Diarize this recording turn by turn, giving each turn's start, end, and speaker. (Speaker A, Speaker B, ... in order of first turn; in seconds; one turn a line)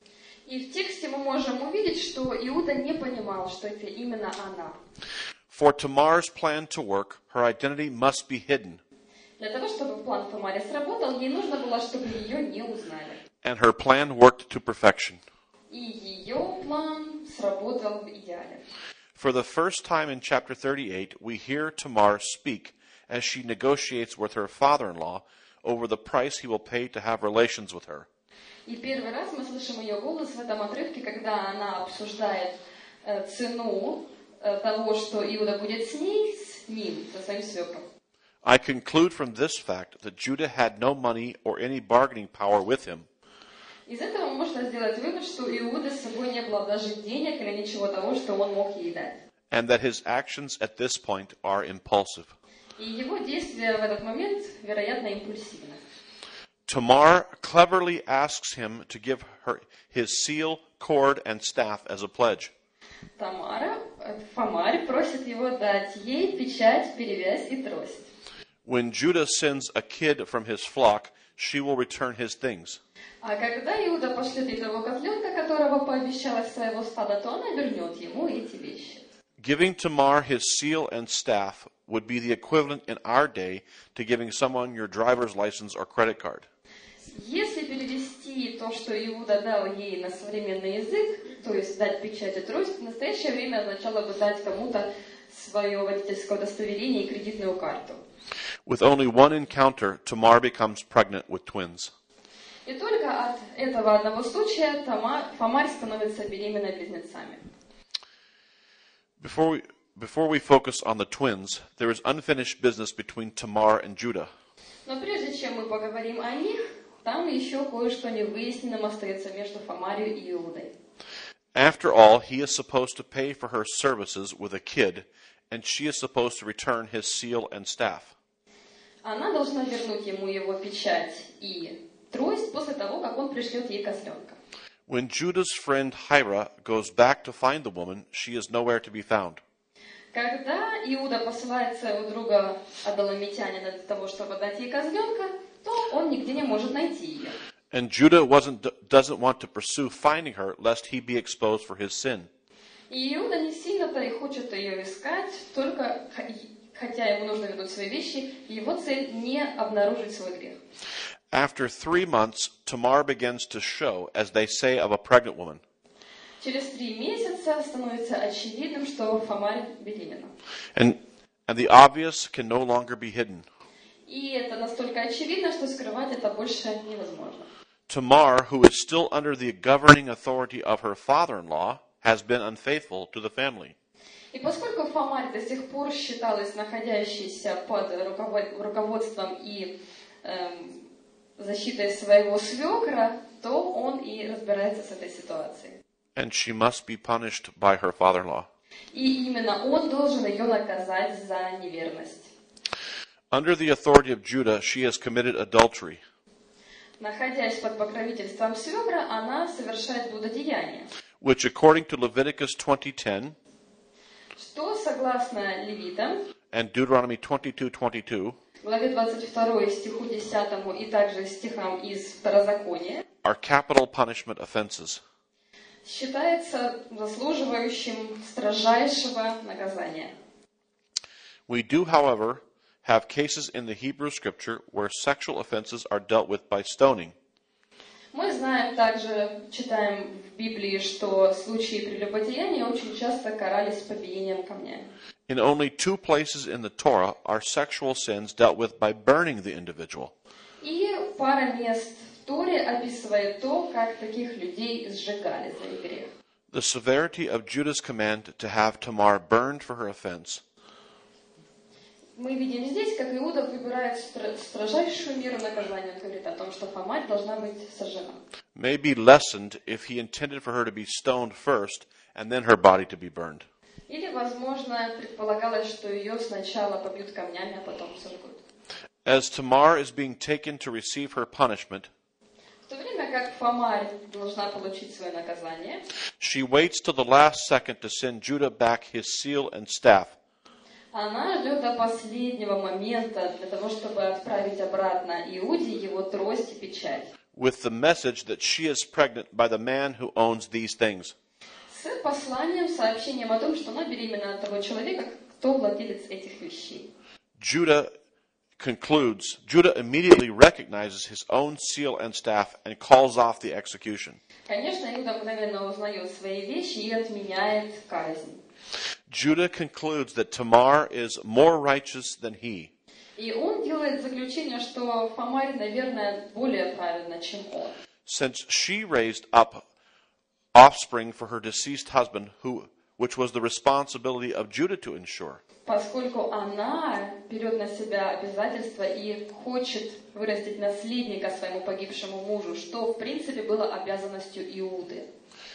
Speaker A: 0.5-4.8
Speaker B: 5.5-8.8
Speaker A: 9.4-13.2
Speaker B: 13.4-15.2
Speaker A: 15.7-18.6
Speaker B: 19.1-28.1
Speaker A: 28.7-37.9
Speaker B: 38.4-43.1
Speaker A: 43.9-49.2
Speaker B: 49.5-52.3
Speaker A: 52.8-55.8
Speaker B: 56.7-62.5
Speaker A: 63.2-68.1
Speaker B: 68.7-72.8
Speaker A: 73.2-79.0
Speaker B: 79.4-86.5
Speaker A: 87.1-98.0
Speaker B: 98.7-101.9
Speaker A: 102.7-107.4
Speaker B: 109.2-114.3
Speaker A: 114.9-120.7
Speaker B: 121.5-128.1
Speaker A: 129.0-134.4
Speaker B: 134.9-139.4
Speaker A: 140.1-147.4
Speaker B: 147.7-152.3
Speaker A: 152.9-160.6
Speaker B: 161.3-165.6
Speaker A: 166.4-170.3
Speaker B: 170.8-173.5
Speaker A: 174.1-177.5
Speaker B: 177.9-183.8
Speaker A: 184.3-195.8
Speaker B: 196.2-198.5
Speaker A: 198.9-202.3
Speaker B: 203.3-206.0
Speaker A: 207.0-210.9
Speaker B: 211.2-213.4
Speaker A: 214.4-216.2
Speaker B: 216.5-218.4
Speaker A: 218.6-223.0
Speaker B: 223.2-225.0
Speaker A: 225.8-230.1
Speaker B: 231.5-237.2
Speaker A: 238.1-244.9
Speaker B: 245.3-250.1
Speaker A: 250.6-256.1
Speaker B: 256.5-260.4
Speaker A: 262.2-268.2
Speaker B: 268.6-273.4
Speaker A: 273.9-278.4
Speaker B: 279.1-281.9
Speaker A: 282.7-285.8
Speaker B: 286.2-290.2
Speaker A: 290.9-297.1
Speaker B: 297.3-301.1
Speaker A: 301.7-306.9
Speaker B: 307.4-307.9
Speaker B: 308.6-314.2
Speaker A: 314.5-318.4
Speaker B: 319.1-322.7
Speaker A: 323.2-327.8
Speaker B: 328.1-329.6
Speaker B: 330.5-335.4
Speaker A: 335.7-345.1